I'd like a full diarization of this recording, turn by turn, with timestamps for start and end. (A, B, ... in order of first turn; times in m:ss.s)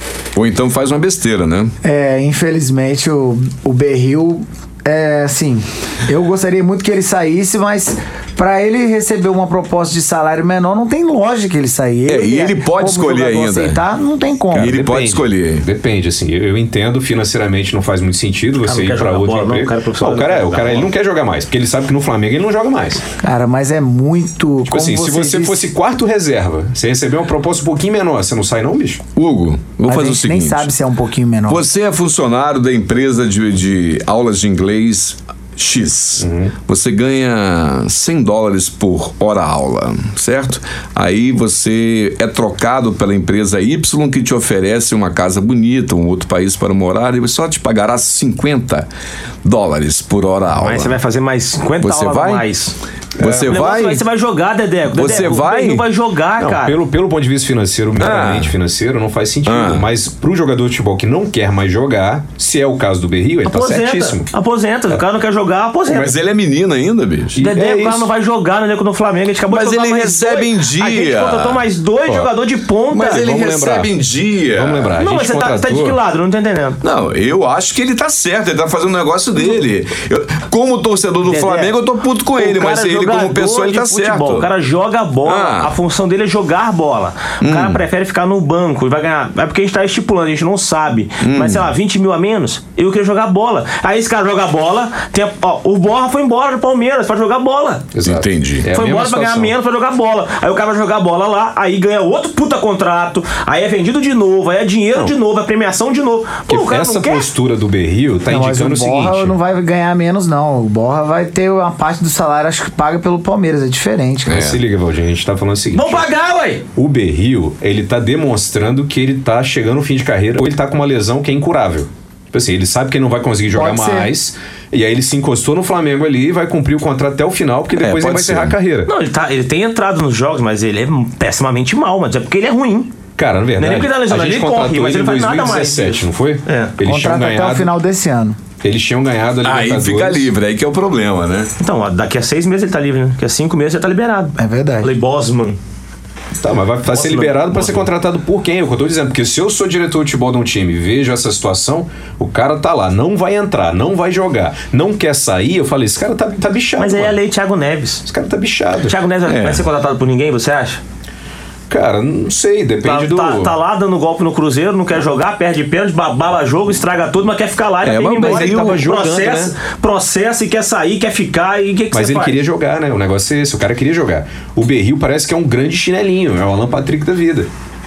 0:00.4-0:01.7 A
0:01.8-0:14.8 B
0:12.1-0:13.8 A
0:14.5-0:23.0 C
0:14.5-0:15.6 A
0:18.6-0:20.9 D
0:23.2-0:25.6 B
0:24.6-0:29.0 C
0:29.2-0:30.7 A
0:29.8-0:31.6 B
0:31.5-0:48.9 A
0:36.2-0:36.5 C
0:49.4-0:51.0 A
0:50.5-0:52.7 D
0:51.8-0:52.5 A
0:53.2-0:53.6 C
0:53.2-0:54.0 A
0:53.4-0:56.8 D
0:54.9-0:55.8 A
0:56.4-1:04.3 C
0:58.0-0:58.5 A
0:59.4-0:59.9 A
1:03.4-1:06.2 D
1:05.9-1:07.4 A
1:07.3-1:08.1 C
1:07.4-1:13.4 D
1:09.5-1:11.6 A
1:12.9-1:14.9 A
1:13.1-1:13.9 C
1:14.5-1:16.0 C
1:15.0-1:16.8 D
1:16.8-1:24.5 A
1:21.2-1:21.8 D
1:22.3-1:37.9 D
1:25.2-1:25.7 A
1:27.4-1:27.8 A
1:31.2-1:31.7 A
1:37.9-1:39.5 C
1:38.0-1:38.7 A
1:38.7-1:47.3 D
1:46.5-1:49.4 C
1:48.2-1:54.5 B
1:54.3-1:54.6 A
1:54.3-1:56.1 C
1:55.7-1:56.6 D
1:56.7-2:08.9 C
2:03.5-2:04.1 B
2:07.7-2:08.6 A
2:08.9-2:13.0 D
2:13.2-2:17.7 C
2:13.6-2:16.7 D
2:16.8-2:18.4 B
2:18.6-2:20.3 C
2:19.4-2:21.5 A
2:21.6-2:25.6 D
2:24.4-2:24.9 B
2:26.4-2:37.2 C
2:26.8-2:27.9 D
2:36.8-2:38.0 D
2:38.0-2:39.0 C
2:38.8-2:40.8 D
2:39.2-2:39.7 A
2:41.7-2:43.5 C
2:42.8-2:52.4 D
2:47.8-2:48.9 A
2:48.2-2:49.5 C
2:51.9-2:57.5 C